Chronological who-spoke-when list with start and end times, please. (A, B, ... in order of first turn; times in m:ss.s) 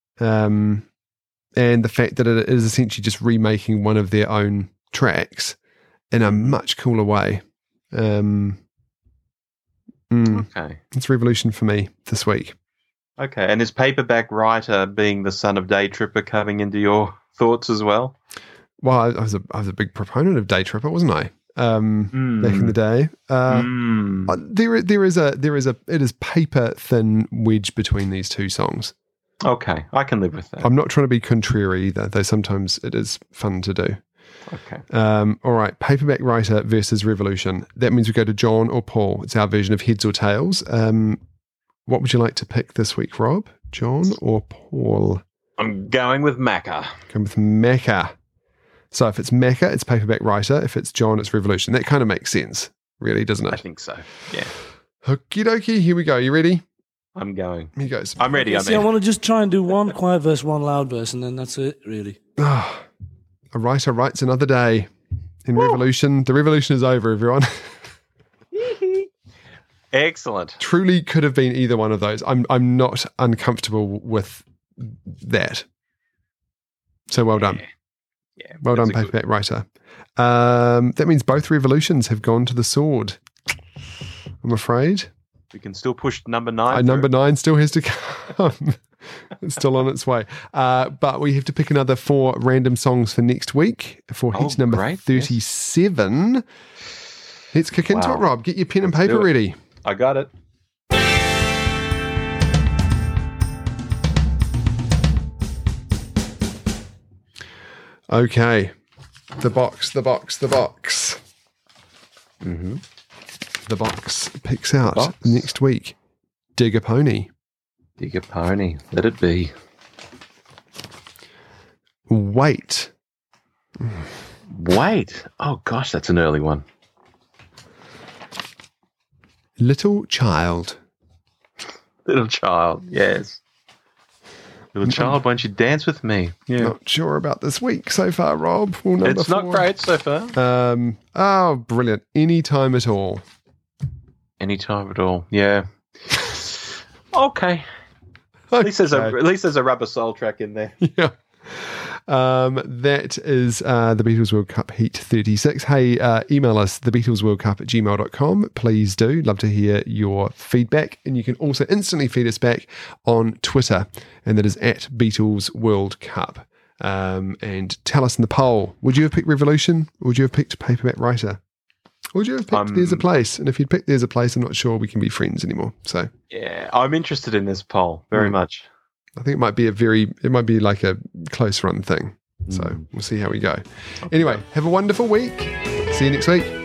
0:00.2-0:00.8 A
0:01.6-0:05.6 A
0:06.1-0:07.4 A
0:06.2-0:06.6 B
0:07.9-0:08.6 A
0:10.1-0:12.5 A
0:10.3-0:10.8 B
0:13.2-0:18.1 B
0:18.8-0:23.7 A
0:22.1-0:22.7 B
0:23.5-0:24.3 B
0:24.3-0:28.9 A
0:29.4-0:30.7 B
0:30.6-0:34.0 A
0:34.5-0:34.8 B
0:34.9-0:41.2 A
0:41.8-0:45.2 A
0:45.6-0:47.0 B
0:47.1-0:48.1 A
0:48.9-0:53.6 A
0:53.5-0:54.5 B
0:55.0-0:56.6 A
0:57.2-0:58.9 B
0:57.8-0:58.2 A
0:58.4-1:02.2 C
1:02.4-1:02.9 A
1:03.5-1:04.9 A
1:05.4-1:07.8 A
1:08.5-1:09.1 B
1:09.9-1:10.6 B
1:10.6-1:15.6 A
1:17.1-1:17.6 A
1:17.3-1:17.6 B
1:18.4-1:19.1 B
1:18.6-1:19.6 A
1:20.2-1:23.2 A
1:24.4-1:25.1 A
1:25.5-1:27.1 B
1:26.7-1:36.4 A
1:34.3-1:35.4 B
1:37.5-1:39.6 A
1:37.9-1:38.2 B
1:38.9-1:39.3 B
1:39.8-1:40.3 B
1:48.1-1:48.7 A
1:49.4-1:51.2 A
1:52.4-1:52.8 B
1:53.6-1:56.0 A
1:54.9-1:55.5 B
1:56.6-1:57.3 A
1:58.0-1:59.5 B
2:02.1-2:02.9 A
2:04.5-2:06.6 B
2:09.6-2:10.8 A
2:12.0-2:13.4 B
2:14.7-2:16.7 B
2:14.8-2:15.2 A
2:16.6-2:19.7 A
2:19.0-2:20.4 B
2:20.3-2:23.2 A
2:24.4-2:27.6 B
2:28.5-2:29.2 A
2:28.6-2:30.7 B
2:30.8-2:51.4 A
2:52.1-2:56.1 A
2:52.5-2:53.0 B
2:56.3-2:58.7 B
2:59.2-3:06.6 A
3:02.5-3:02.8 B
3:04.0-3:04.4 B